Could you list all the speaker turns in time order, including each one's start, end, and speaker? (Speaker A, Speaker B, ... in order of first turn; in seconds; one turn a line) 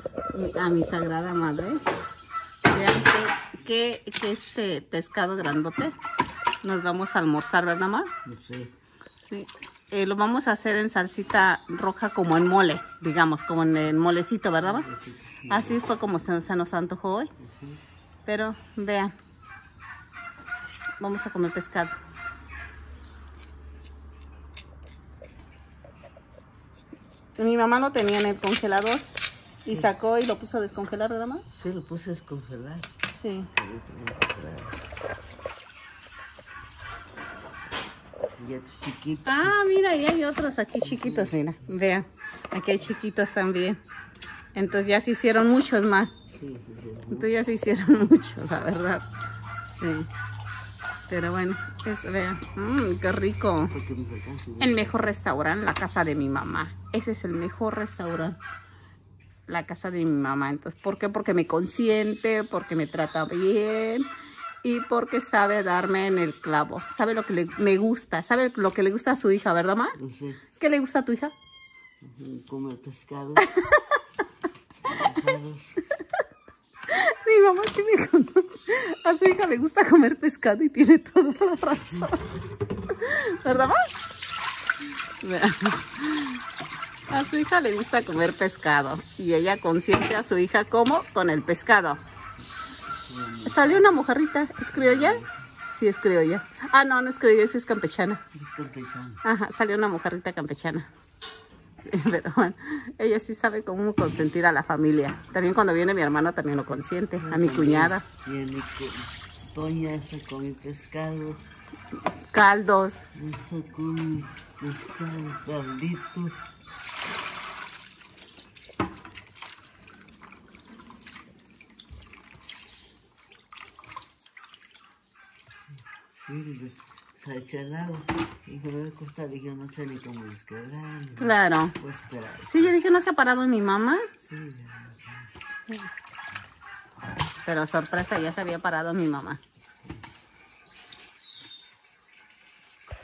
Speaker A: 0.3-1.8
Speaker A: 2.7-6.0
Speaker A: 6.6-8.1
Speaker B: 8.2-8.7
Speaker A: 9.2-14.9
Speaker B: 14.6-15.9
Speaker A: 15.5-17.3
Speaker B: 17.4-17.8
Speaker A: 18.3-19.1
Speaker A: 21.0-21.9
Speaker A: 27.4-29.1
Speaker A: 29.6-31.5
Speaker B: 29.7-29.9
Speaker B: 31.5-33.0
Speaker A: 33.1-33.5
Speaker B: 33.5-34.8
Speaker B: 38.4-39.6
Speaker A: 39.3-43.8
Speaker B: 40.8-41.4
Speaker A: 44.5-46.1
Speaker B: 46.3-47.3
Speaker A: 47.1-49.1
Speaker A: 49.6-50.1
Speaker A: 51.1-53.7
Speaker B: 53.7-54.9
Speaker A: 54.6-58.4
Speaker A: 59.5-64.1
Speaker A: 64.6-70.0
Speaker B: 70.0-70.5
Speaker A: 70.6-71.3
Speaker B: 72.0-73.5
Speaker A: 73.5-73.8
Speaker B: 74.9-75.8
Speaker A: 76.9-82.2
Speaker A: 83.0-83.8
Speaker A: 85.2-86.4
Speaker A: 87.1-92.0
Speaker B: 92.7-94.0
Speaker A: 93.5-95.2
Speaker B: 94.7-95.5
Speaker A: 95.7-98.2
Speaker B: 98.3-99.2
Speaker A: 99.2-100.9
Speaker A: 101.9-108.0
Speaker B: 107.2-111.5
Speaker A: 112.3-113.0
Speaker B: 113.2-116.4
Speaker B: 126.3-132.8
Speaker A: 131.2-131.8
Speaker A: 132.5-134.0
Speaker B: 134.3-135.3
Speaker A: 137.4-139.4